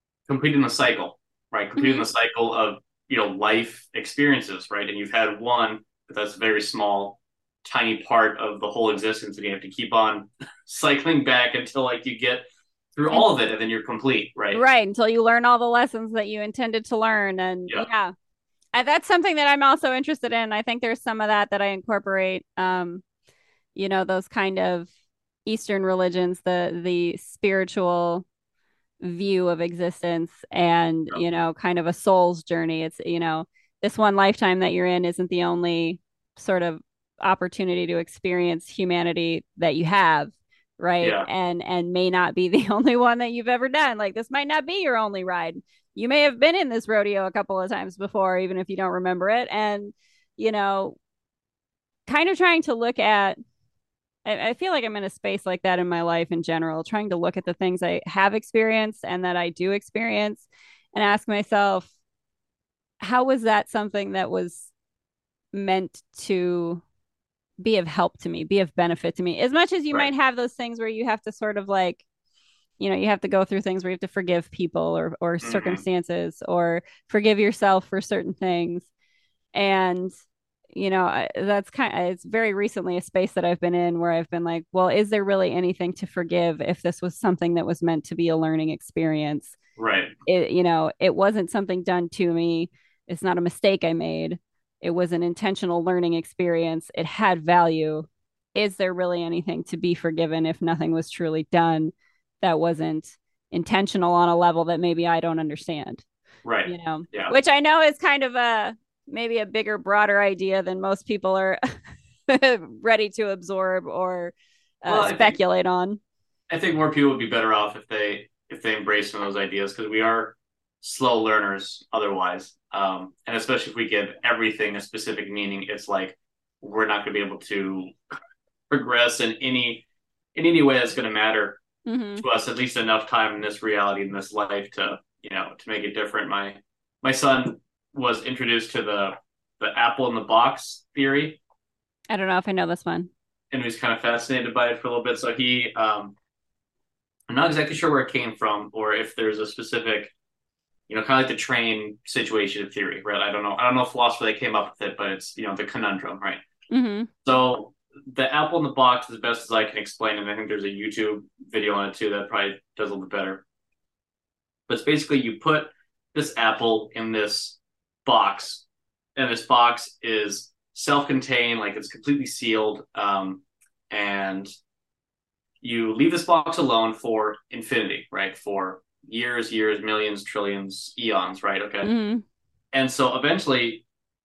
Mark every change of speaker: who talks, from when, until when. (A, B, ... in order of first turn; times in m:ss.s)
0:00.3-0:14.6 A
0:01.8-0:02.0 B
0:14.5-0:18.1 B
0:18.7-0:23.0 B
0:23.7-0:24.9 B
0:25.4-0:28.2 B
0:29.0-0:51.0 B
0:41.0-0:41.3 A
0:52.1-0:53.4 B
0:54.2-1:01.9 B
1:03.0-1:04.7 B
1:05.5-1:06.8 B
1:07.6-1:12.0 B
1:12.8-1:18.9 B
1:15.4-1:15.8 A
1:19.5-1:20.1 B
1:20.7-1:29.5 B
1:29.8-1:30.1 A
1:30.2-1:46.0 B
1:46.4-1:47.3 A
1:46.6-1:51.6 B
1:52.3-1:56.0 B
1:54.9-1:55.4 A
1:56.5-2:07.9 A
2:08.7-2:11.6 A
2:11.8-2:12.2 B
2:12.2-2:21.4 A
2:22.1-2:23.1 B
2:23.5-2:26.1 A
2:27.3-2:30.1 A
2:30.9-2:36.4 A
2:36.7-2:37.1 B
2:37.2-2:43.4 A
2:44.7-2:48.6 A
2:49.2-2:54.5 A
2:55.6-3:01.9 A
3:01.8-3:02.2 B
3:02.7-3:03.8 A